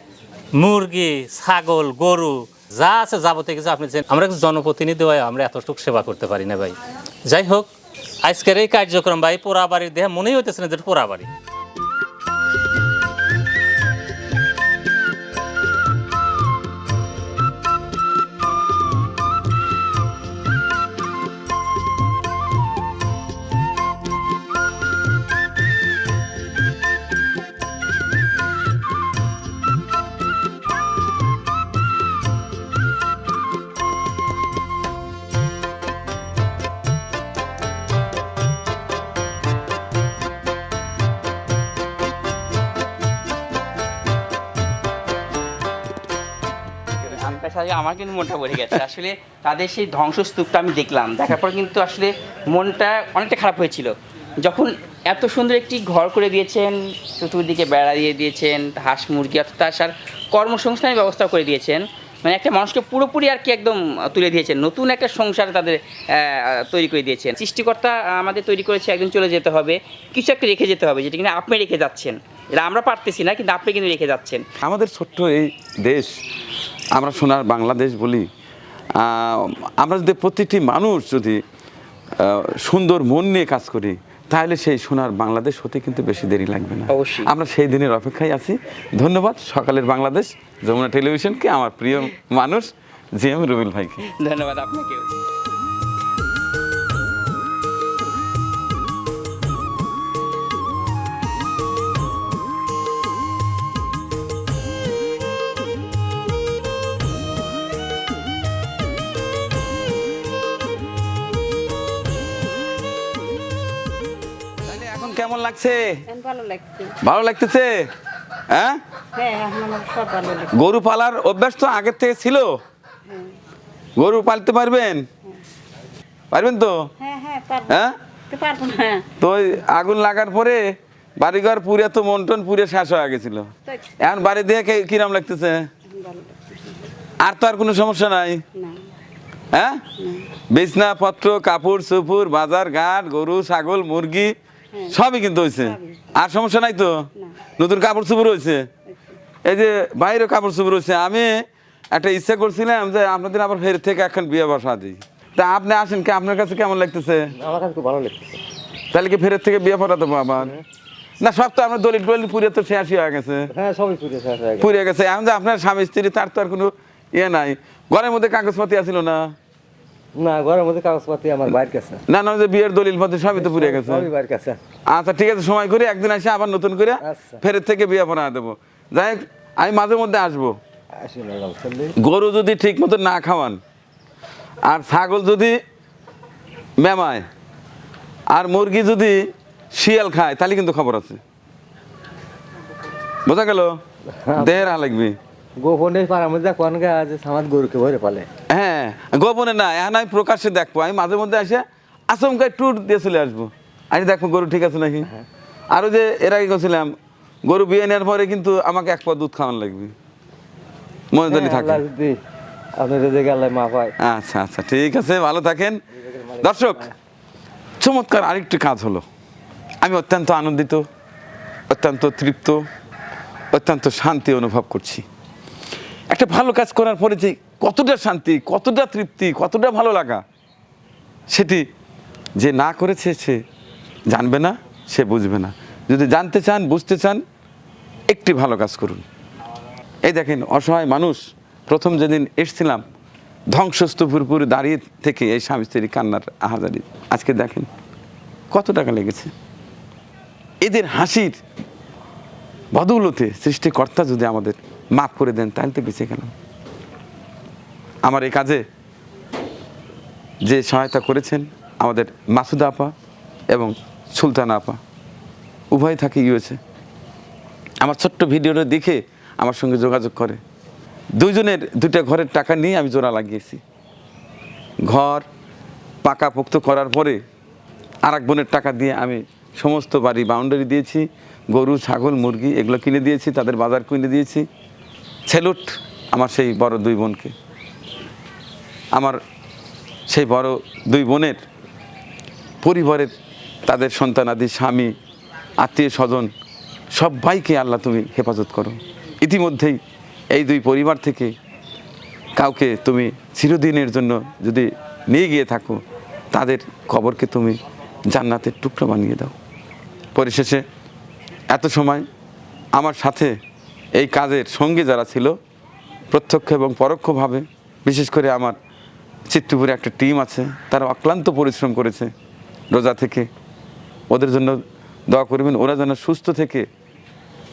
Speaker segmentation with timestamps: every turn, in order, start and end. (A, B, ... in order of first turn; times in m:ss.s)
0:00.5-0:11.3 A
0:47.0-0:53.9 B
0:54.4-1:14.4 B
1:14.6-1:16.1 C
1:16.9-1:18.3 C
1:19.0-1:21.4 C
1:22.2-1:34.1 C
1:26.9-1:27.3 B
1:34.0-1:35.1 B
1:54.6-1:56.0 C
1:56.0-1:57.0 D
1:57.0-1:57.8 C
1:58.5-1:58.8 C
1:59.1-2:00.5 D
2:00.5-2:02.6 C
2:04.0-2:05.1 C
2:06.3-2:06.7 C
2:07.0-2:07.8 D
2:07.7-2:07.9 C
2:08.3-2:09.0 D
2:09.2-2:10.6 C
2:11.2-2:15.7 C
2:15.9-2:16.8 D
2:17.2-2:18.4 C
2:18.6-2:18.8 D
2:19.5-2:19.9 C
2:20.0-2:20.3 D
2:20.5-2:24.3 C
2:24.9-2:28.7 C
2:25.6-2:26.0 D
2:28.9-2:29.1 D
2:29.4-2:31.3 C
2:31.9-2:37.3 C
2:37.4-2:38.4 E
2:38.9-2:40.6 C
2:41.2-2:43.5 C
2:43.5-2:44.7 E
2:44.6-2:49.4 C
2:50.2-2:52.0 E
2:52.1-2:54.1 C
2:53.3-2:54.6 E
2:54.9-3:00.6 C
2:57.0-2:57.4 E
3:01.0-3:01.9 E
3:02.0-3:03.6 C
3:04.6-3:05.6 C
3:06.8-3:07.2 C
3:08.3-3:09.2 C
3:09.7-3:11.2 C
3:13.2-3:13.7 C
3:14.1-3:14.7 E
3:14.4-3:15.2 C
3:15.6-3:18.3 E
3:18.5-3:25.1 C
3:25.7-3:26.9 C
3:27.4-3:29.9 C
3:31.1-3:31.8 C
3:31.3-3:32.2 E
3:32.8-3:33.9 E
3:34.0-3:35.8 C
3:35.9-3:36.9 E
3:36.4-3:36.9 C
3:37.8-3:39.0 C
3:39.8-3:40.8 C
3:41.7-3:42.6 C
3:43.5-3:45.0 C
3:46.1-3:50.2 C
3:51.3-3:51.6 C
3:52.4-3:53.4 C
3:54.1-3:57.2 C
3:58.1-3:59.0 C
4:00.0-4:02.8 C
4:03.5-4:07.7 C
4:08.5-4:09.3 C
4:10.6-4:11.4 C
4:12.7-4:16.3 C
4:18.0-4:18.6 C
4:20.4-4:22.9 C
4:23.5-4:24.8 C
4:25.7-4:26.6 C
4:27.8-4:30.4 C
4:31.2-4:33.6 C
4:34.8-4:35.2 C
4:36.0-4:37.2 C
4:38.0-4:44.5 C
4:45.2-4:47.3 C
4:48.9-4:49.2 C
4:50.1-4:51.4 C
4:52.6-4:53.1 C
4:53.6-4:54.9 C
4:55.6-4:56.3 C
4:56.9-4:59.8 C
5:00.3-5:01.3 C
5:02.4-5:05.8 C
5:06.3-5:09.3 C
5:10.1-5:10.6 C
5:11.5-5:12.0 C
5:12.7-5:13.3 C
5:13.9-5:15.4 C
5:16.1-5:18.6 C
5:19.3-5:22.1 C
5:22.7-5:23.3 C
5:24.1-5:26.6 C